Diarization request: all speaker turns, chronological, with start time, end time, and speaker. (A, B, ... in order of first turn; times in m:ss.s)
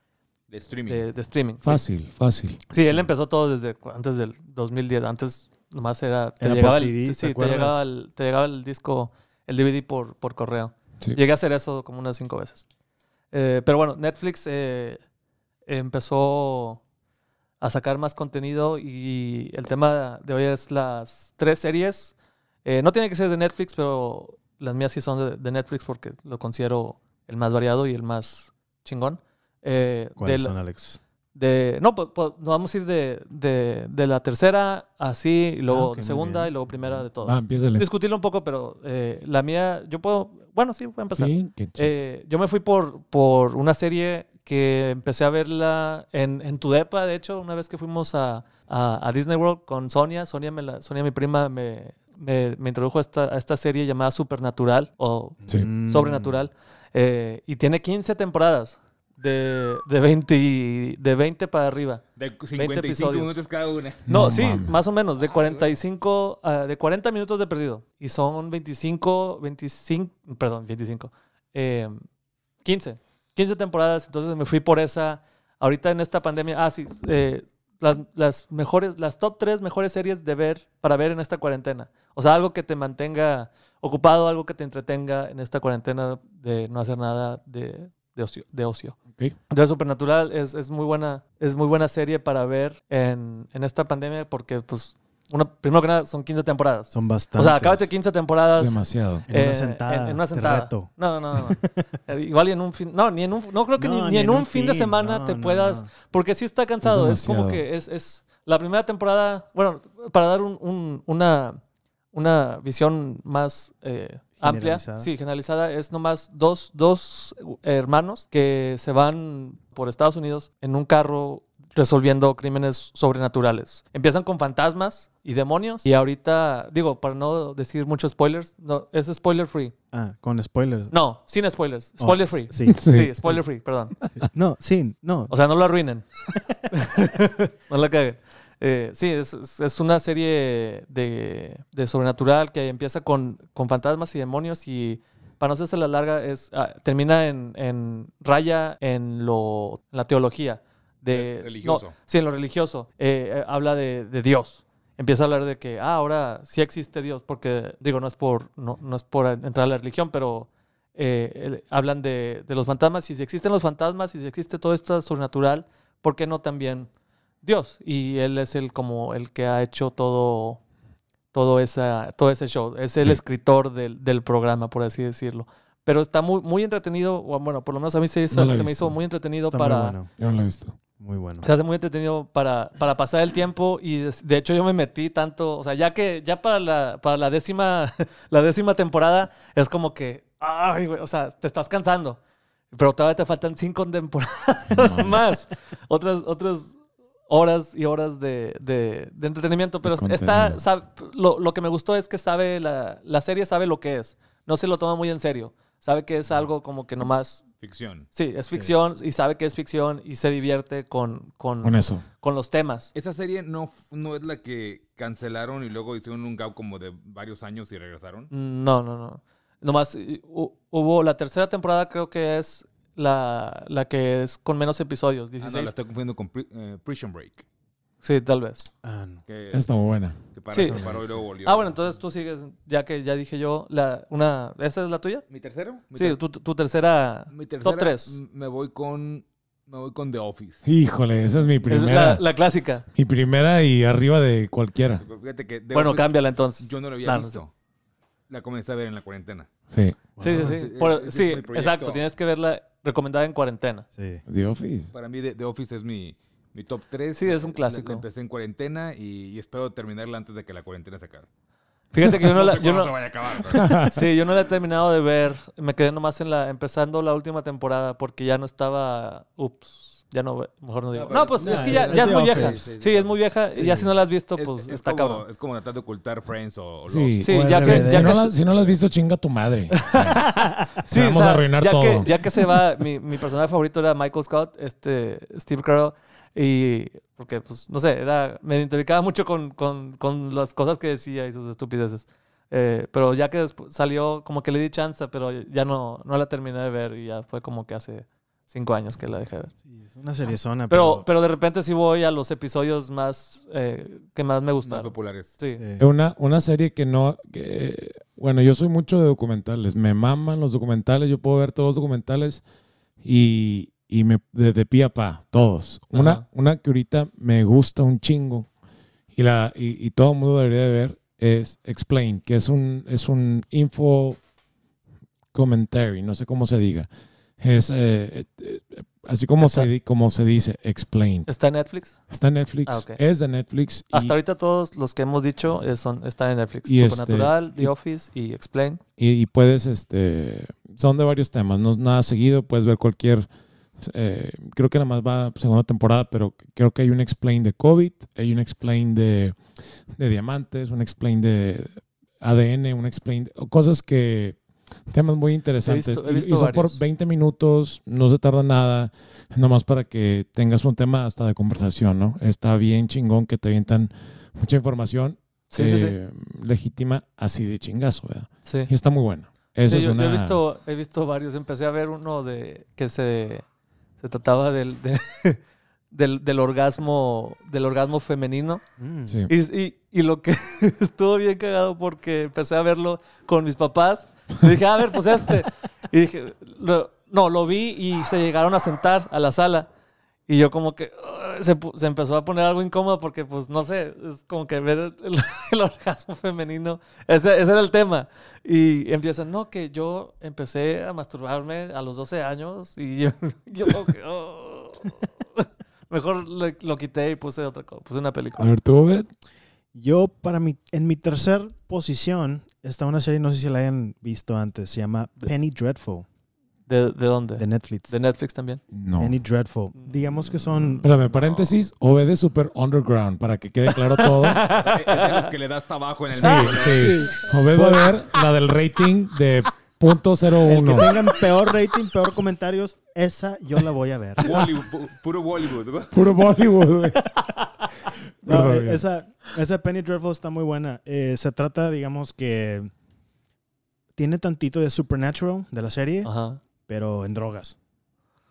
0:00.5-0:01.0 A
0:00.9-0:01.8 B
0:01.6-0:02.6 C
0:02.7-0:12.6 B
0:02.8-0:03.1 D
0:06.4-0:07.8 D
0:13.3-0:15.0 B
0:15.7-0:16.8 B
0:17.6-0:22.1 B
0:22.6-0:30.5 B
0:30.2-0:31.0 D
0:31.4-1:02.0 B
0:35.7-0:37.0 D
0:37.2-0:37.9 C
0:41.2-0:41.9 C
0:55.4-0:56.4 D
1:02.2-1:04.0 A
1:02.5-1:03.4 B
1:04.1-1:04.8 C
1:04.1-1:12.0 B
1:05.3-1:05.6 A
1:12.6-1:29.0 B
1:29.5-1:51.6 B
1:36.9-1:37.9 D
1:38.6-1:39.3 C
1:39.3-1:41.7 D
1:43.8-1:45.9 D
1:46.8-1:47.6 C
1:52.1-2:09.7 B
1:54.4-1:55.1 D
2:09.9-2:10.9 D
2:10.9-2:14.0 B
2:12.0-2:13.4 D
2:12.7-2:13.1 C
2:14.2-2:15.3 D
2:15.3-2:16.1 B
2:16.7-2:46.9 B
2:31.1-2:32.0 A
2:47.4-2:50.6 B
2:51.3-3:00.0 B
2:58.3-2:59.0 C
2:59.4-3:00.1 D
3:00.2-3:00.8 C
3:01.0-3:01.5 D
3:01.4-3:12.2 B
3:12.7-3:16.7 B
3:14.7-3:15.3 C
3:17.3-3:27.4 B
3:19.8-3:20.6 C
3:27.6-3:28.1 A
3:28.1-3:32.9 B
3:31.6-3:32.0 C
3:33.0-3:38.3 A
3:38.3-3:45.7 B
3:45.4-3:47.4 A
3:48.0-3:48.7 B
3:48.8-3:49.2 D
3:49.3-3:49.6 A
3:49.5-3:50.2 C
3:50.3-3:51.7 A
3:50.5-3:50.8 B
3:50.6-3:51.2 D
3:51.4-3:55.3 B
3:55.3-3:56.2 A
3:56.0-3:58.2 B
3:57.3-4:00.6 A
4:00.6-4:02.2 C
4:01.7-4:02.8 B
4:02.9-4:05.0 C
4:05.0-4:07.5 A
4:05.7-4:07.4 B
4:08.3-4:09.5 A
4:09.7-4:10.0 C
4:10.2-4:10.5 D
4:10.2-4:13.9 B
4:10.3-4:12.0 A
4:14.0-4:14.2 D
4:14.3-4:14.9 C
4:14.9-4:21.3 A
4:17.2-4:18.0 B
4:21.9-4:23.0 B
4:22.2-4:23.7 A
4:23.5-4:24.0 C
4:23.5-4:35.2 B
4:30.9-4:33.8 A
4:31.4-4:32.7 D
4:33.6-4:33.9 D
4:34.4-4:37.2 A
4:36.9-4:40.3 C
4:37.2-4:38.3 B
4:37.2-4:38.2 D
4:39.8-4:59.5 B
4:40.8-4:42.2 C
4:59.7-5:01.1 D
5:00.7-5:05.6 B
5:04.6-5:05.4 A
5:05.6-5:05.9 D
5:05.8-5:12.4 C
5:13.0-5:18.5 C
5:15.9-5:16.2 B
5:19.1-5:24.2 C
5:25.3-5:26.9 C
5:27.4-5:31.3 C
5:29.4-5:29.7 B
5:31.3-5:32.0 B
5:32.1-5:34.2 C
5:32.7-5:33.0 B
5:33.9-5:38.8 B
5:36.6-5:37.7 C
5:39.0-5:43.3 C
5:43.8-5:49.4 C
5:50.0-6:10.4 C
5:55.6-5:56.8 B
6:05.5-6:06.0 B
6:08.4-6:08.7 B
6:09.6-6:13.4 B
6:14.0-6:18.6 B
6:18.8-6:19.3 D
6:19.3-6:29.7 B
6:30.3-6:48.5 B
6:48.4-6:49.1 C
6:49.7-6:56.1 D
6:56.7-6:58.6 B
6:57.4-6:58.0 D
6:58.7-6:59.2 C
6:59.0-7:00.9 D
7:00.8-7:04.5 C
7:01.1-7:01.5 A
7:03.7-7:05.3 B
7:04.5-7:07.1 A
7:06.1-7:11.0 C
7:06.2-7:07.9 D
7:10.4-7:14.3 D
7:14.2-7:16.0 A
7:15.9-7:17.1 C
7:18.2-7:18.8 C
7:18.2-7:22.7 D
7:24.0-7:26.1 D
7:26.0-7:26.4 B
7:26.7-7:27.6 D